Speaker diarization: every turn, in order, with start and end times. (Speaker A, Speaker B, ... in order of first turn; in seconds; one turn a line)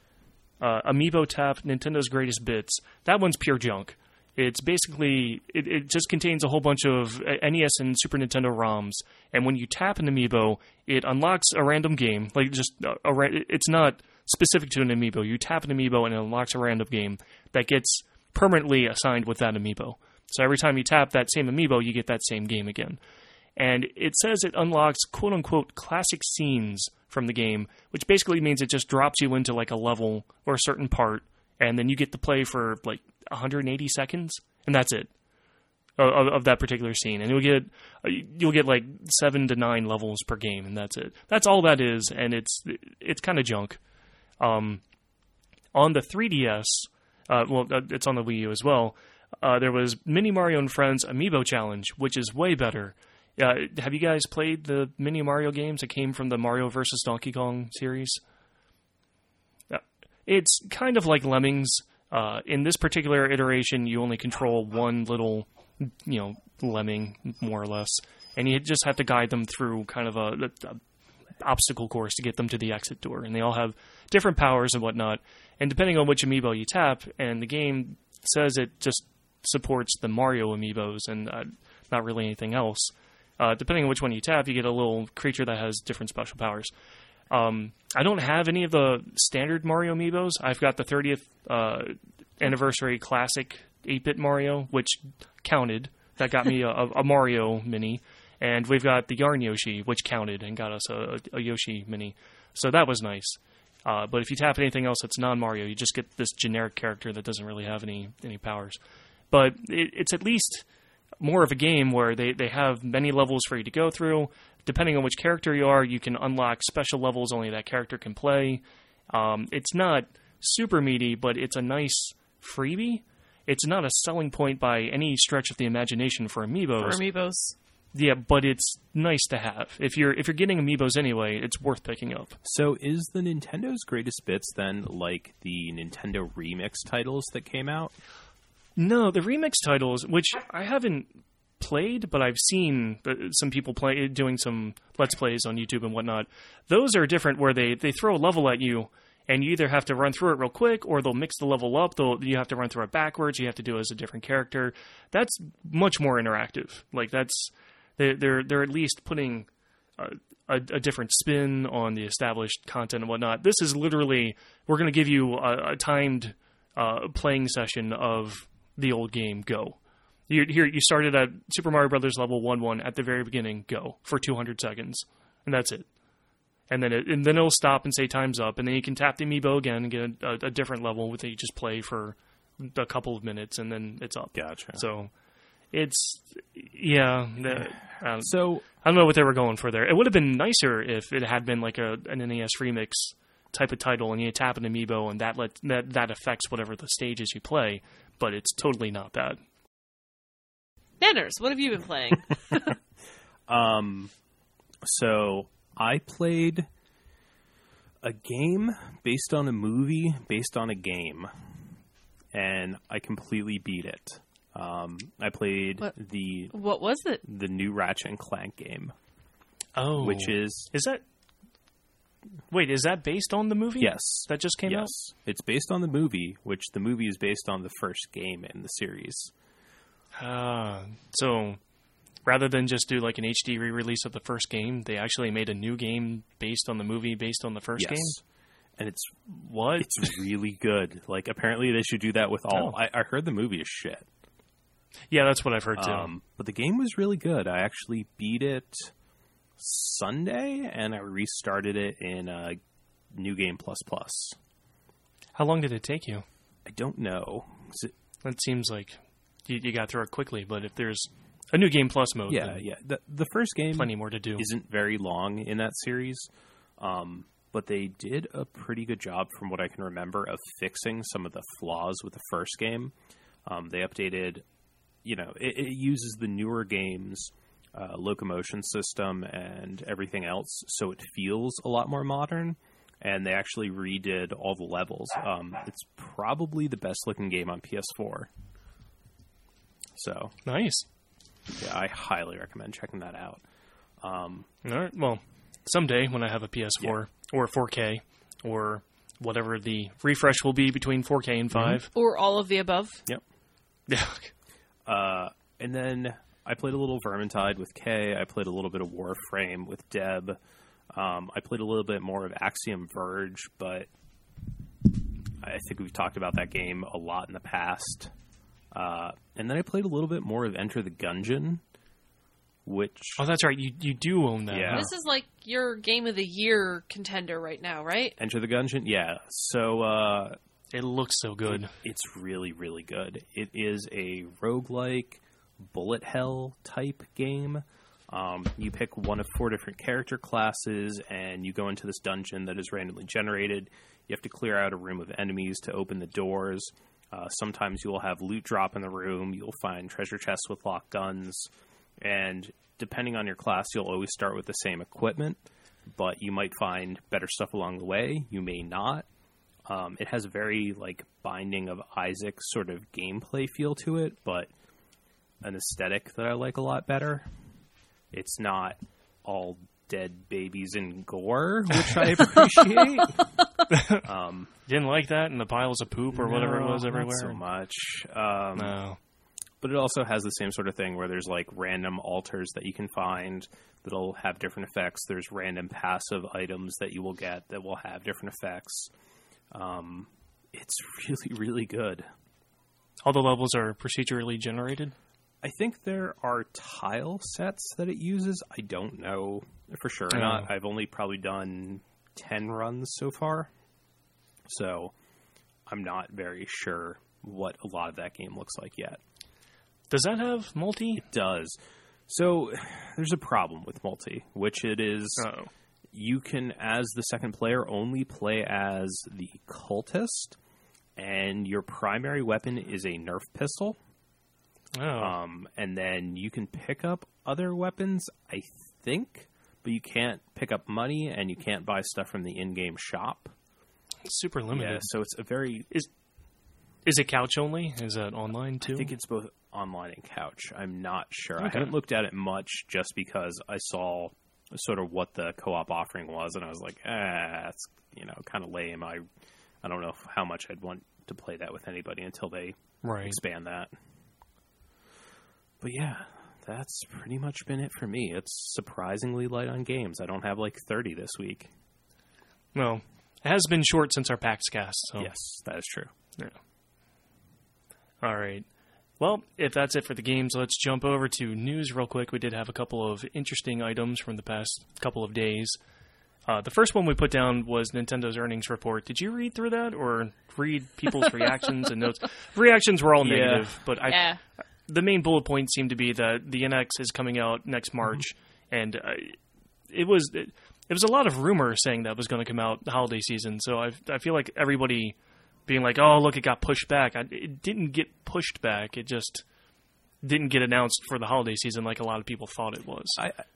Speaker A: 0.6-23.0
Speaker A: 23.6-35.1
Speaker A: 36.0-43.8
Speaker A: 44.4-44.8
Speaker A: 45.7-58.2
Speaker A: 59.7-70.8
Speaker A: 71.4-86.7
Speaker A: 87.3-108.8
Speaker A: 109.3-110.7
Speaker A: 111.2-127.0
Speaker B: 126.8-127.5
Speaker A: 127.9-132.4
Speaker C: 132.4-137.9
Speaker A: 138.8-175.9
Speaker A: 176.7-185.1
Speaker C: 184.3-184.8
Speaker A: 185.7-199.4
Speaker C: 188.2-188.6
Speaker B: 201.0-202.8
Speaker C: 203.5-204.1
Speaker C: 204.8-206.7
Speaker C: 208.0-211.3
Speaker C: 212.3-216.5
Speaker B: 216.5-217.2
Speaker C: 217.2-218.9
Speaker A: 219.8-221.0
Speaker C: 220.0-220.7
Speaker A: 222.5-224.9
Speaker C: 223.8-229.3
Speaker A: 230.2-231.6
Speaker A: 232.2-238.1
Speaker C: 237.8-238.2
Speaker C: 238.8-239.3
Speaker A: 239.3-240.1
Speaker C: 239.8-244.1
Speaker A: 242.5-242.8
Speaker A: 245.1-246.1
Speaker C: 245.8-248.9
Speaker C: 249.6-252.6
Speaker C: 253.1-254.4
Speaker A: 255.3-256.2
Speaker C: 256.6-257.9
Speaker A: 258.2-262.6
Speaker C: 262.3-272.9
Speaker A: 263.7-264.5
Speaker C: 273.4-274.4
Speaker C: 275.0-288.3
Speaker C: 289.9-290.3
Speaker A: 290.4-290.8
Speaker C: 291.6-293.4
Speaker C: 294.0-294.5
Speaker A: 294.6-301.9
Speaker C: 301.5-301.8
Speaker B: 301.9-303.1
Speaker A: 303.9-304.3
Speaker C: 304.9-310.4
Speaker C: 310.9-313.9
Speaker C: 315.4-318.1
Speaker C: 318.7-321.6
Speaker C: 322.6-323.2
Speaker A: 323.2-324.9
Speaker C: 324.5-324.9
Speaker B: 324.7-328.2
Speaker C: 328.2-330.4
Speaker A: 330.7-331.7
Speaker C: 331.5-351.5
Speaker C: 352.0-359.1
Speaker C: 359.7-364.5
Speaker C: 365.4-367.3
Speaker C: 368.1-374.5
Speaker A: 373.7-374.0
Speaker A: 374.6-377.4
Speaker C: 376.1-378.7
Speaker A: 378.6-379.0
Speaker C: 379.6-388.9
Speaker C: 389.5-392.1
Speaker A: 393.0-394.9
Speaker C: 395.4-403.5
Speaker A: 400.1-400.5
Speaker C: 404.5-404.9
Speaker C: 405.7-409.0
Speaker A: 409.9-411.1
Speaker C: 411.0-411.6
Speaker C: 412.1-415.3
Speaker A: 415.2-415.5
Speaker C: 415.9-420.4
Speaker C: 421.0-423.8
Speaker A: 424.7-425.1
Speaker C: 425.0-433.3
Speaker A: 434.0-434.9
Speaker C: 434.5-435.7
Speaker A: 436.8-438.9
Speaker C: 438.6-449.0
Speaker A: 441.4-441.7
Speaker C: 449.6-453.7
Speaker A: 452.8-453.2
Speaker C: 455.6-461.5
Speaker A: 462.5-465.1
Speaker C: 465.0-465.9
Speaker A: 468.0-468.4
Speaker A: 469.0-475.6
Speaker A: 476.3-489.2
Speaker C: 483.0-483.5
Speaker B: 483.8-484.2
Speaker A: 489.7-499.2
Speaker A: 500.0-503.0